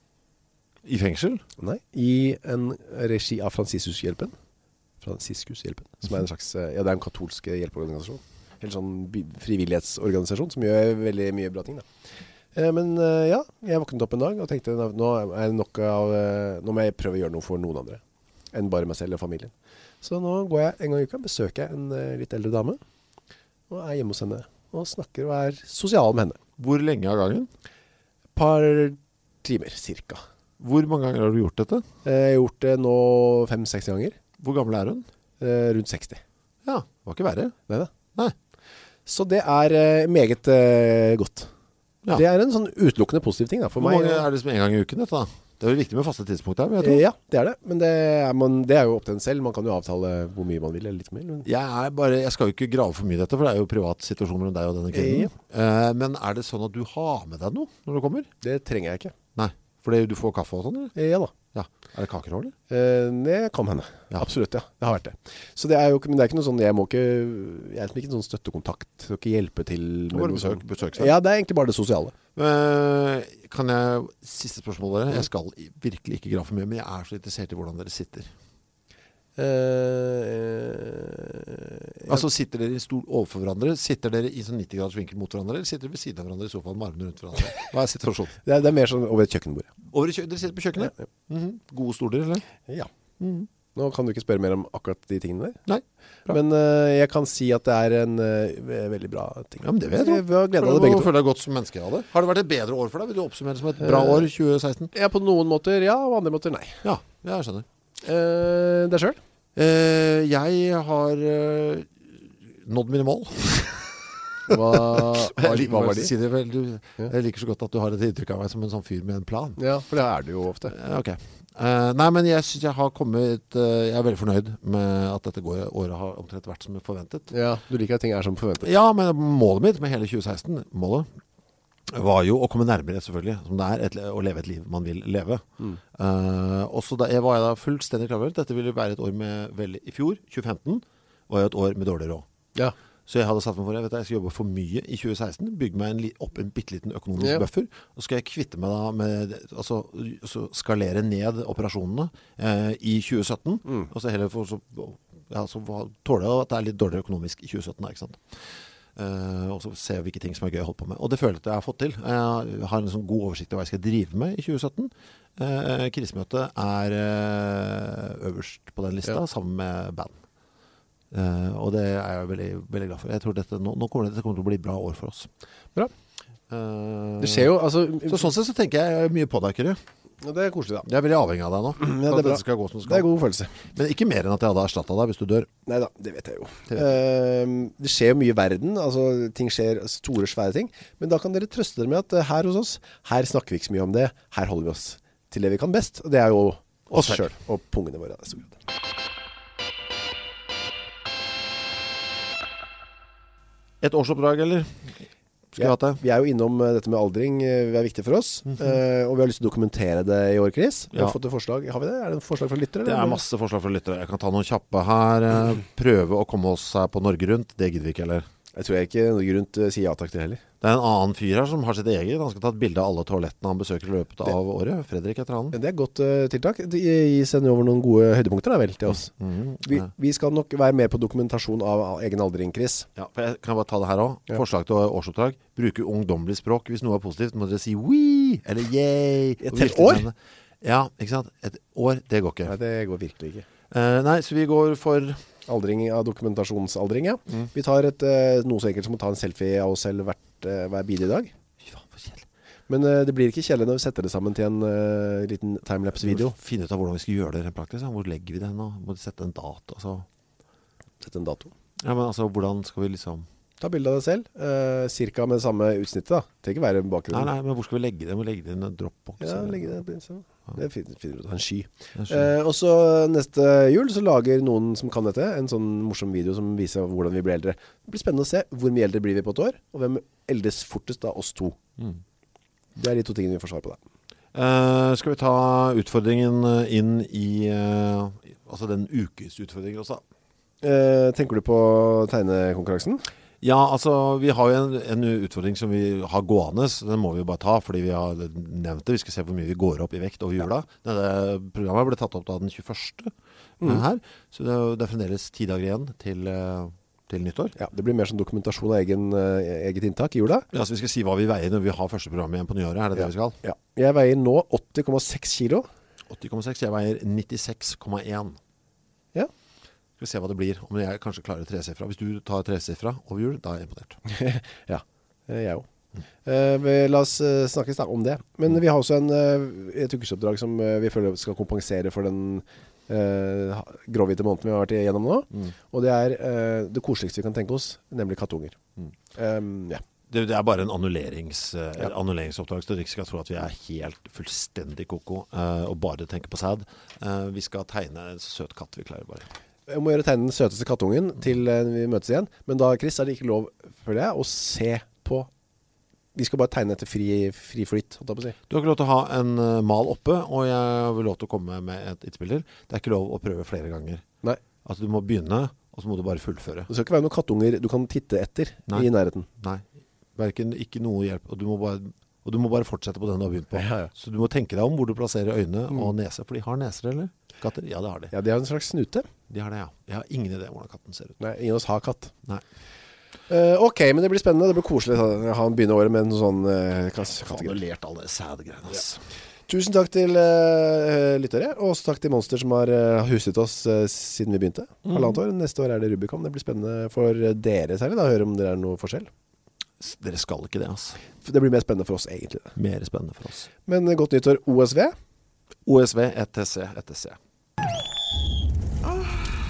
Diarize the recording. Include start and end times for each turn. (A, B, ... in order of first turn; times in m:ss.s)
0:00.8-0:01.4 A
0:01.6-0:04.3 B
0:05.0-0:11.9 B
0:12.6-0:18.0 B
0:18.5-0:22.8 B
0:23.7-0:26.4 B
0:26.6-0:27.5 A
0:28.3-0:30.2 B
0:30.6-0:31.9 A
0:32.0-0:34.2 B
0:34.4-0:35.0 A
0:35.4-0:36.2 B
0:36.6-0:37.6 A
0:39.0-0:41.5 B
0:42.1-0:44.2 B
0:43.8-0:47.0 A
0:46.8-0:51.5 B
0:51.4-0:58.3 A
0:54.9-0:55.3 B
0:58.4-0:59.1 B
0:59.4-1:00.9 A
1:01.0-1:01.3 B
1:01.5-1:02.6 A
1:02.7-1:12.1 B
1:10.1-1:11.1 A
1:12.3-1:18.3 A
1:19.4-1:22.2 B
1:22.1-1:28.4 A
1:28.4-1:29.7 B
1:29.9-1:32.4 A
1:30.8-1:31.0 B
1:33.2-1:33.5 A
1:33.7-1:35.6 B
1:35.7-1:36.4 A
1:36.3-1:41.1 B
1:39.6-1:44.9 A
1:43.8-1:44.3 B
1:44.9-1:46.8 B
1:46.8-1:47.7 A
1:48.0-1:49.2 B
1:49.6-1:59.6 A
1:54.5-1:56.1 B
1:59.6-2:00.7 B
2:00.7-2:07.3 A
2:07.3-2:08.7 B
2:08.6-2:11.1 A
2:11.9-2:22.3 A
2:23.1-2:38.4 A
2:27.2-2:27.4 B
2:39.0-2:50.2 A
2:51.1-2:55.3 A
2:56.5-2:57.6 A
2:57.2-2:58.3 B
2:58.1-2:59.8 A
3:00.2-3:00.9 B
3:00.8-3:03.1 A
3:01.8-3:03.6 B
3:03.6-3:05.5 A
3:05.7-3:18.6 B
3:16.9-3:17.3 A
3:23.8-3:25.0 A
3:25.5-3:26.0 A
3:25.6-3:33.2 B
3:28.5-3:28.8 A
3:32.8-3:38.3 A
3:38.5-3:40.4 B
3:40.6-3:45.6 A
3:45.5-3:49.1 B
3:49.1-3:49.9 A
3:49.6-3:52.9 B
3:53.0-4:02.6 A
3:59.4-4:00.1 B
4:02.4-4:03.5 B
4:03.7-4:05.2 A
4:05.5-4:11.3 B
4:11.6-4:12.3 A
4:12.7-4:16.4 B
4:16.0-4:20.0 A
4:21.0-4:21.5 B
4:21.8-4:23.3 A
4:23.6-4:27.3 B
4:27.1-4:29.7 A
4:29.2-4:41.6 B
4:32.0-4:32.3 A
4:42.8-4:43.8 B
4:44.3-4:50.0 A
4:50.6-4:53.0 B
4:53.4-5:07.5 A
5:07.6-5:10.5 B
5:10.5-5:13.4 A
5:13.0-5:15.7 B
5:16.1-5:18.4 A
5:20.0-5:24.0 A
5:24.0-5:25.7 B
5:26.2-5:38.6 B
5:39.1-5:39.8 B
5:40.1-5:49.3 A
5:49.7-5:55.3 B
5:56.1-5:58.4 B
5:58.5-6:04.0 A
6:04.6-6:06.7 A
6:06.7-6:09.3 B
6:08.7-6:18.1 A
6:13.5-6:13.9 B
6:18.1-6:19.1 B
6:19.3-6:21.2 A
6:21.2-6:22.1 B
6:23.3-6:27.6 B
6:27.2-6:29.0 A
6:29.5-6:39.1 B
6:34.9-6:35.2 A
6:39.8-6:41.0 A
6:41.2-6:42.6 B
6:42.6-6:43.5 A
6:43.7-6:45.0 B
6:45.7-6:47.2 A